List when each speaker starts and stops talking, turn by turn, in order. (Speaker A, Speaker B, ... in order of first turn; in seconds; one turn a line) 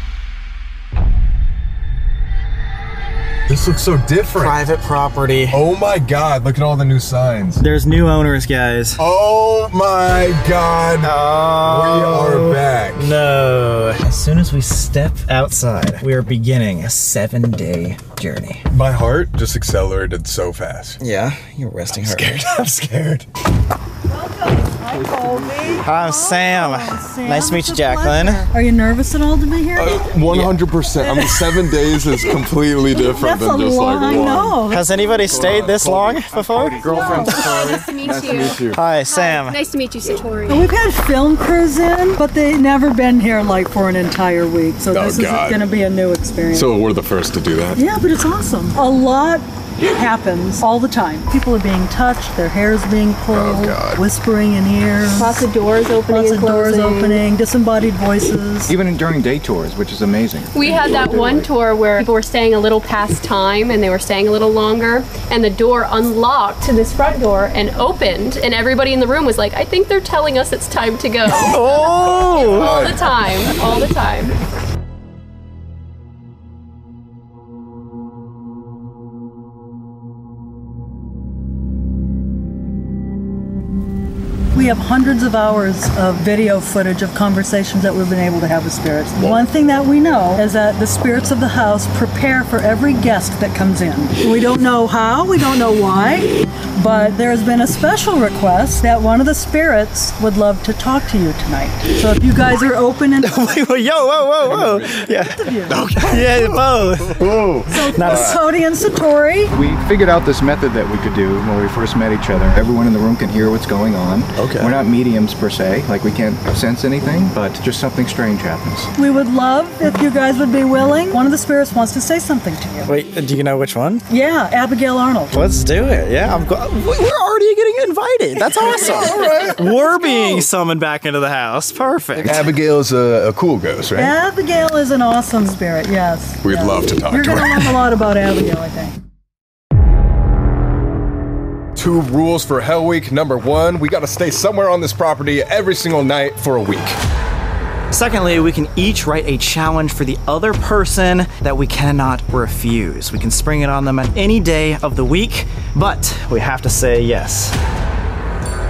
Speaker A: 3.5-4.6
Speaker B: 4.4-5.6
Speaker A: 5.5-7.6
Speaker B: 7.6-9.0
Speaker A: 9.0-13.2
Speaker B: 11.0-18.7
Speaker A: 18.7-21.0
Speaker B: 21.0-23.2
Speaker A: 22.0-22.7
Speaker C: 24.1-30.1
Speaker A: 25.1-25.8
Speaker B: 25.8-28.5
Speaker A: 29.8-38.8
Speaker B: 30.3-30.6
Speaker C: 31.0-32.4
Speaker C: 32.9-34.9
Speaker B: 34.7-37.3
Speaker D: 36.8-38.6
Speaker E: 36.8-40.7
Speaker C: 37.1-37.5
Speaker B: 38.7-39.6
Speaker C: 40.5-46.8
Speaker A: 44.9-45.6
Speaker A: 46.5-47.8
Speaker C: 47.8-55.5
Speaker A: 53.3-54.0
Speaker E: 55.1-57.2
Speaker C: 56.1-58.7
Speaker D: 58.7-60.7
Speaker E: 60.5-74.4
Speaker A: 60.6-61.5
Speaker A: 71.3-73.5
Speaker B: 71.4-72.8
Speaker C: 84.5-103.7
Speaker B: 103.2-105.4
Speaker A: 104.4-105.1
Speaker C: 105.1-105.8
Speaker A: 105.7-108.4
Speaker B: 106.0-108.4
Speaker C: 107.7-109.5
Speaker D: 109.5-118.9
Speaker A: 114.4-114.8
Speaker C: 119.0-123.0
Speaker B: 122.9-124.0
Speaker C: 124.1-125.3
Speaker B: 125.3-132.5
Speaker A: 128.5-129.7
Speaker C: 129.2-130.5
Speaker A: 132.2-134.2
Speaker C: 133.9-139.0
Speaker A: 136.4-137.8
Speaker A: 141.8-147.0
Speaker B: 147.9-157.6